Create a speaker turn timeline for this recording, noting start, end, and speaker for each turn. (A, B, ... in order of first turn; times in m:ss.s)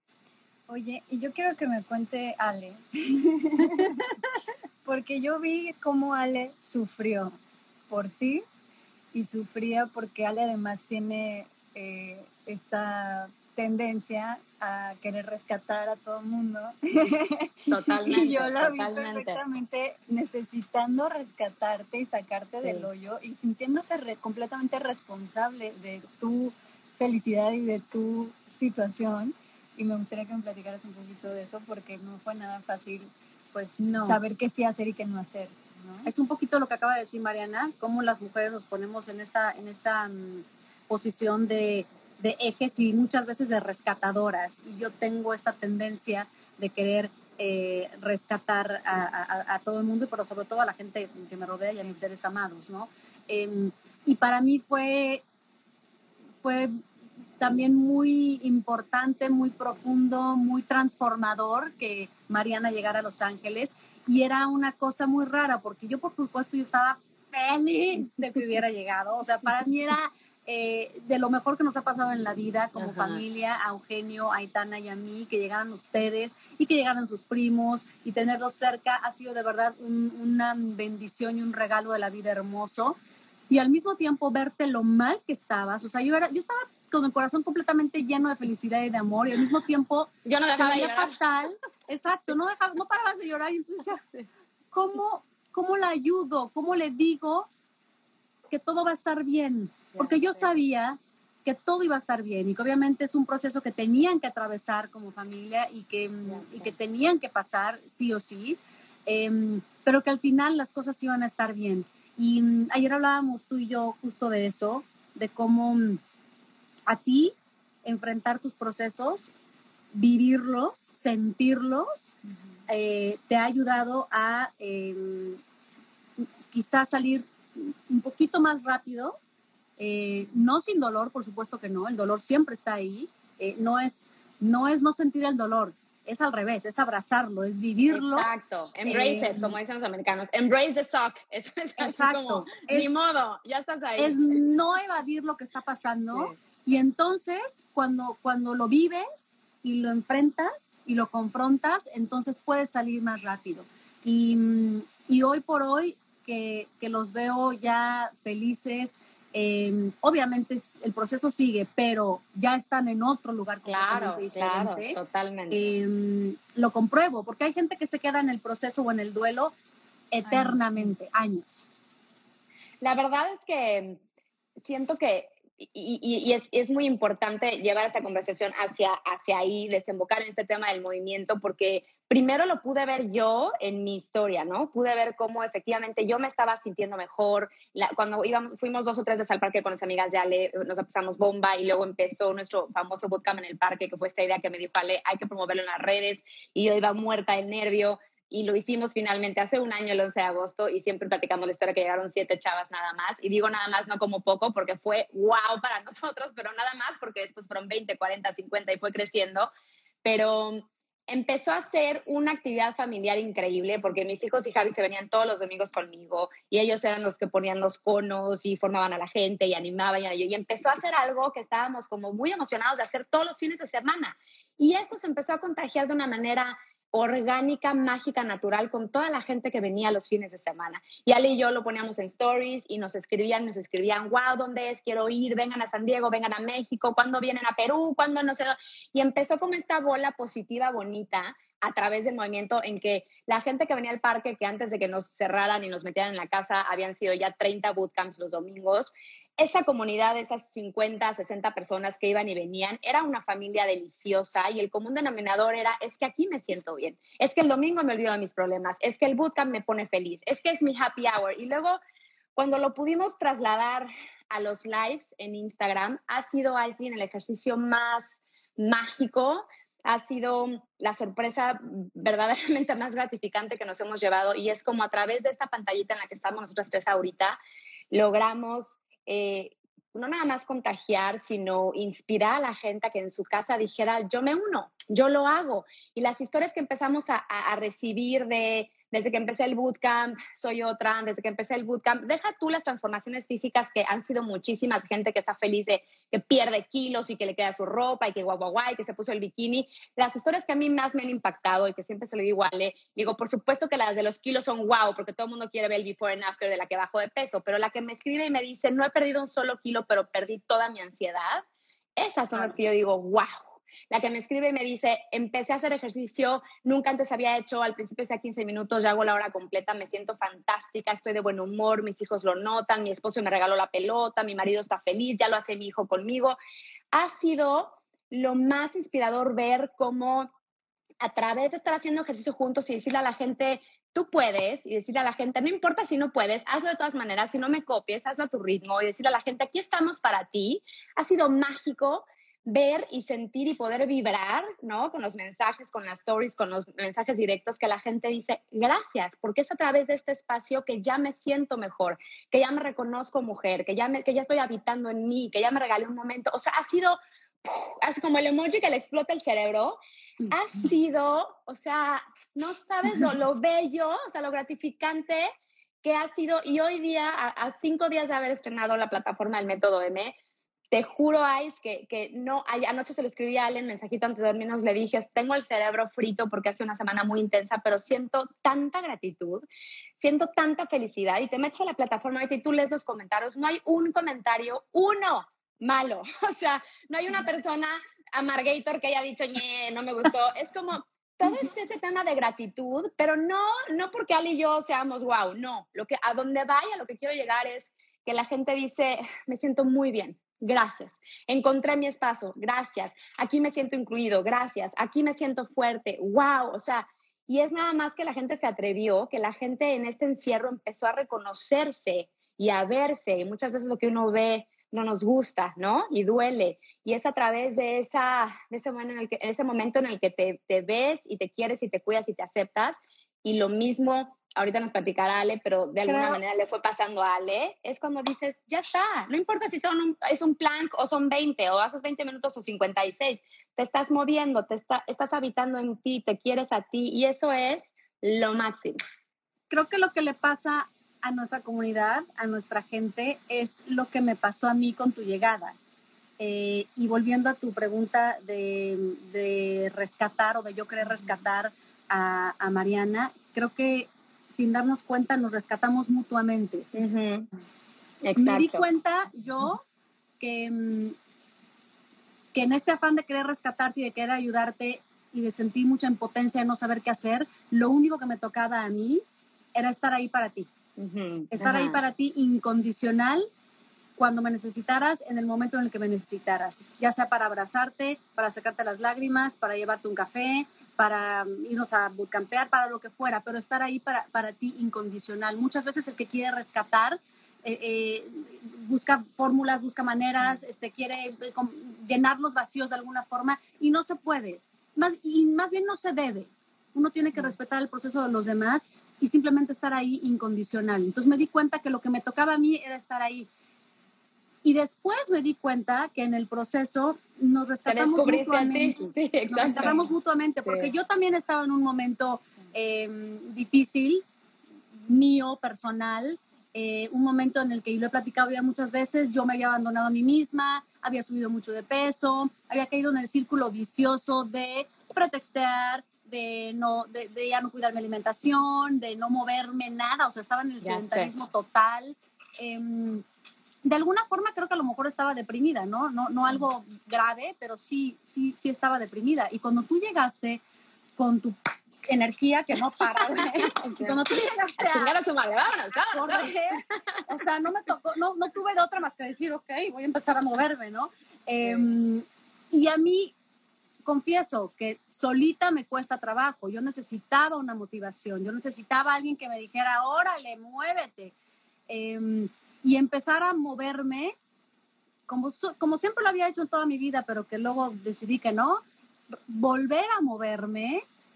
0:00.7-0:04.0 A
0:04.8-0:07.4 A
0:07.9-0:08.4 A
0:09.1-0:36.1 A
0:17.7-0:19.4 B
0:22.6-0:22.9 B
0:33.8-0:34.2 C
0:36.0-0:55.2 C
0:56.4-0:56.7 C
0:57.4-1:23.0 C
1:12.8-1:13.2 B
1:23.5-1:34.0 C
1:30.2-1:31.2 B
1:34.7-1:37.5 C
1:38.5-1:56.0 C
1:39.9-1:40.5 B
1:46.3-1:46.6 B
1:56.9-1:57.3 C
1:57.8-1:59.3 C
1:59.9-2:02.1 C
2:02.7-2:05.4 C
2:06.2-2:09.2 C
2:09.8-2:18.3 C
2:17.9-2:24.2 B
2:18.9-2:19.6 C
2:21.8-2:23.0 C
2:24.0-2:45.0 C
2:43.6-2:45.6 B
2:45.5-2:49.5 C
2:50.1-2:51.6 C
2:52.8-2:54.0 B
2:54.6-3:29.5 B
3:30.0-4:21.8 B
4:22.4-4:37.4 B
4:37.9-5:11.4 B
5:12.0-5:26.4 B
5:26.9-5:30.3 B
5:31.0-5:59.8 B
6:00.3-6:05.3 B
6:05.8-6:10.1 B
6:10.7-6:19.4 B
6:20.0-7:18.8 B
7:05.8-7:06.2 C
7:19.5-7:25.6 C
7:26.2-7:36.7 C
7:36.7-7:37.3 B
7:38.0-7:38.6 B
7:38.2-7:39.6 C
7:40.2-7:41.0 C
7:42.3-7:49.0 C
7:49.5-7:50.5 C
7:50.8-7:51.8 B
7:51.3-7:53.3 C
7:54.0-8:23.3 C
8:24.4-8:34.0 C
8:27.7-8:29.8 B
8:30.4-8:30.7 B
8:34.8-8:53.0 C
8:50.6-8:51.1 B
8:53.6-9:00.4 C
9:01.0-9:05.0 C
9:03.2-9:04.0 B
9:04.6-9:07.0 B
9:05.8-9:13.1 C
9:13.8-9:21.1 C
9:21.7-9:24.1 C
9:25.1-9:28.6 C
9:29.3-9:30.8 C